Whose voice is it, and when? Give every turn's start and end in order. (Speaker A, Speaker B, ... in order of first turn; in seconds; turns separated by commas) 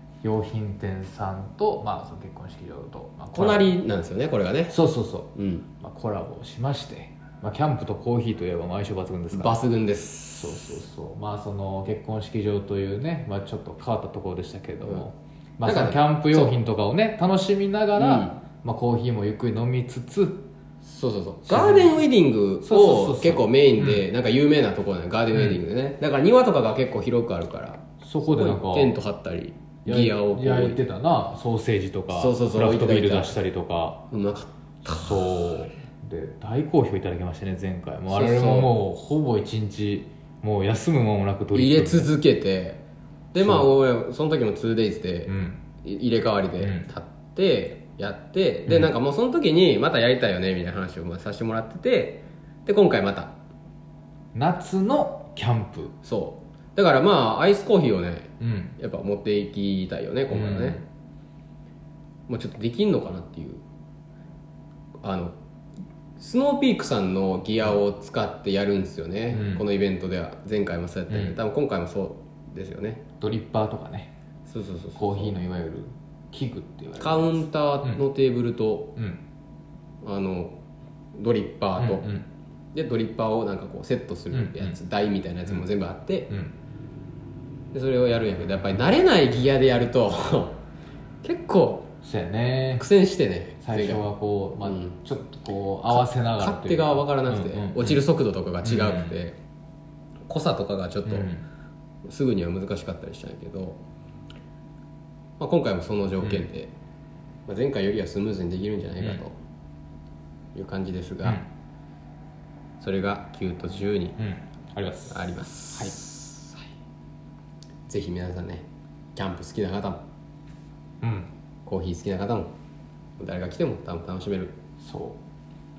Speaker A: 0.2-3.7, Speaker B: 3.3-4.8, Speaker A: 4.7-9.6, Speaker B: 5.3-5.7, Speaker B: 9.3-10.7, Speaker A: 10.4-20.5, Speaker B: 15.6-16.5, Speaker B: 17.9-18.4, Speaker B: 20.8-30.8, Speaker A: 21.5-22.0, Speaker A: 22.6-24.0, Speaker A: 25.3-25.6, Speaker A: 28.0-29.0, Speaker A: 29.9-34.0, Speaker B: 32.1-33.4, Speaker B: 34.1-35.2, Speaker A: 34.8-42.1, Speaker B: 38.1-38.7, Speaker B: 41.5-42.8, Speaker B: 43.3-53.4, Speaker A: 43.4-43.7, Speaker A: 45.3-45.6, Speaker A: 46.6-46.9, Speaker A: 54.3-56.0, Speaker B: 56.0-60.8, Speaker A: 58.4-58.8, Speaker A: 60.3-60.9, Speaker B: 62.3-63.6, Speaker B: 65.0-65.4, Speaker B: 66.2-73.0, Speaker A: 69.3-69.6, Speaker A: 71.1-71.3, Speaker A: 73.2-74.1, Speaker B: 74.5-75.4, Speaker A: 75.0-78.0, Speaker B: 77.0-79.0, Speaker B: 80.0-80.6, Speaker B: 81.1-82.0, Speaker A: 81.8-82.3, Speaker B: 82.7-86.3, Speaker A: 84.3-84.8, Speaker B: 87.7-90.6, Speaker B: 91.2-91.9, Speaker A: 92.0-92.9, Speaker B: 92.8-94.0, Speaker A: 93.6-98.0, Speaker B: 94.7-94.9, Speaker B: 95.9-99.4, Speaker A: 98.6-99.2, Speaker B: 100.3-101.3, Speaker A: 101.1-101.5, Speaker B: 102.0-103.8, Speaker B: 105.4-106.7, Speaker B: 107.5-109.4, Speaker B: 110.5-111.4, Speaker B: 112.8-114.2, Speaker A: 114.2-115.2, Speaker B: 115.1-116.5, Speaker A: 115.7-116.0, Speaker B: 117.9-120.0, Speaker A: 121.0-121.3, Speaker B: 121.7-122.5, Speaker B: 123.2-124.6, Speaker A: 124.8-125.2